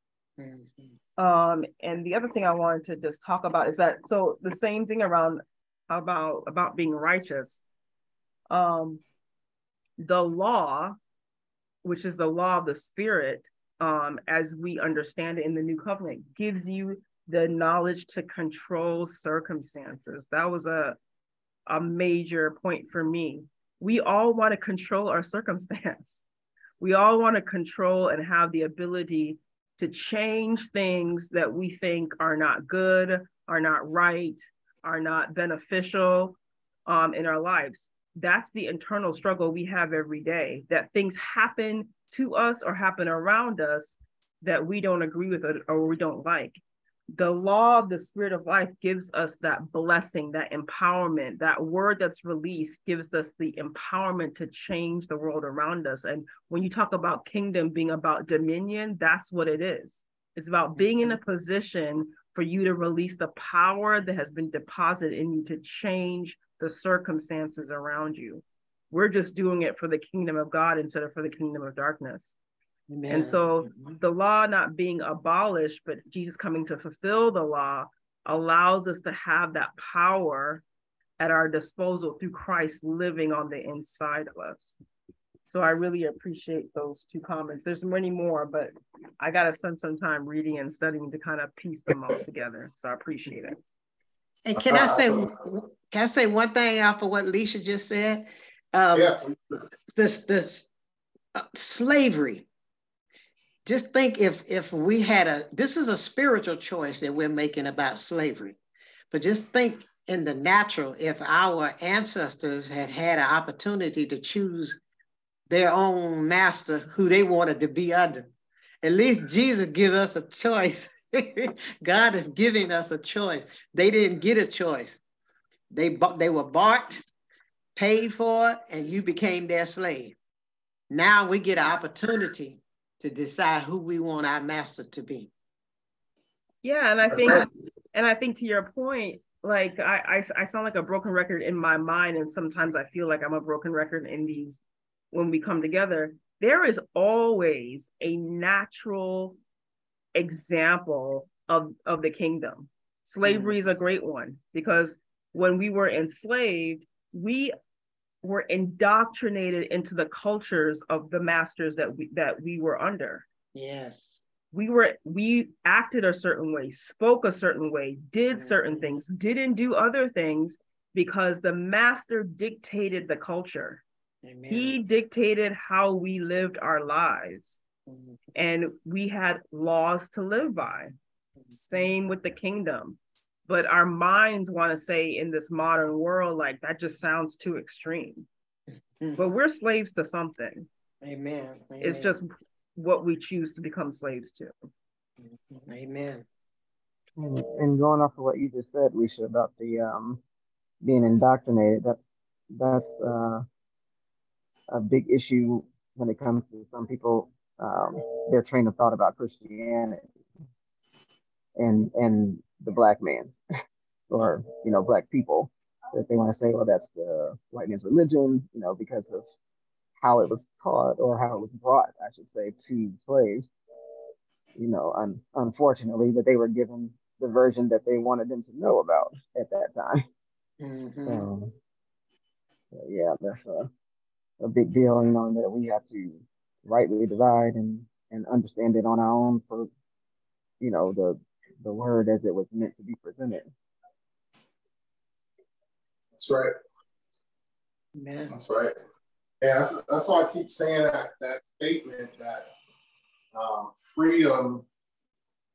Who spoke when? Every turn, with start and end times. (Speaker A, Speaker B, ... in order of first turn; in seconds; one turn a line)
Speaker A: 0.4-1.0
Speaker B: 1.2-7.6
Speaker B: 8.5-9.0
Speaker B: 10.0-11.0
Speaker B: 11.8-21.0
Speaker B: 21.7-26.2
Speaker B: 26.8-46.6
Speaker B: 47.1-72.3
Speaker A: 60.8-61.2
Speaker A: 72.9-74.0
Speaker B: 73.1-80.6
Speaker B: 81.2-84.8
Speaker B: 85.5-93.6
Speaker A: 94.5-99.2
Speaker C: 94.6-95.3
Speaker C: 98.9-99.6
Speaker A: 99.9-100.7
Speaker A: 101.4-102.5
Speaker A: 103.7-108.6
Speaker A: 109.1-114.8
Speaker A: 115.5-118.3
Speaker A: 118.8-125.0
Speaker A: 125.7-127.0
Speaker A: 127.8-130.2
Speaker A: 130.9-135.3
Speaker B: 136.6-144.6
Speaker C: 137.1-137.5
Speaker B: 145.1-149.4
Speaker B: 150.2-157.5
Speaker A: 153.2-153.6
Speaker B: 158.2-163.2
Speaker A: 163.6-164.2
Speaker B: 164.5-173.8
Speaker A: 168.3-168.9
Speaker A: 174.2-174.8
Speaker B: 174.5-177.6
Speaker A: 177.9-178.2
Speaker B: 178.3-180.9
Speaker A: 181.4-181.9
Speaker B: 181.7-188.3
Speaker B: 189.2-190.7
Speaker A: 191.0-192.1
Speaker B: 191.8-194.5
Speaker A: 195.2-196.3
Speaker D: 197.2-200.2
Speaker D: 200.8-203.4
Speaker D: 204.7-210.0
Speaker D: 211.6-213.3
Speaker D: 214.1-219.2
Speaker D: 220.0-223.5
Speaker D: 224.6-230.0
Speaker A: 230.6-231.3
Speaker D: 231.1-231.5
Speaker D: 232.7-233.7
Speaker D: 234.4-239.7
Speaker D: 240.6-243.5
Speaker C: 246.2-246.5
Speaker A: 248.0-248.4
Speaker C: 248.3-248.7
Speaker C: 249.4-252.5
Speaker C: 253.3-254.7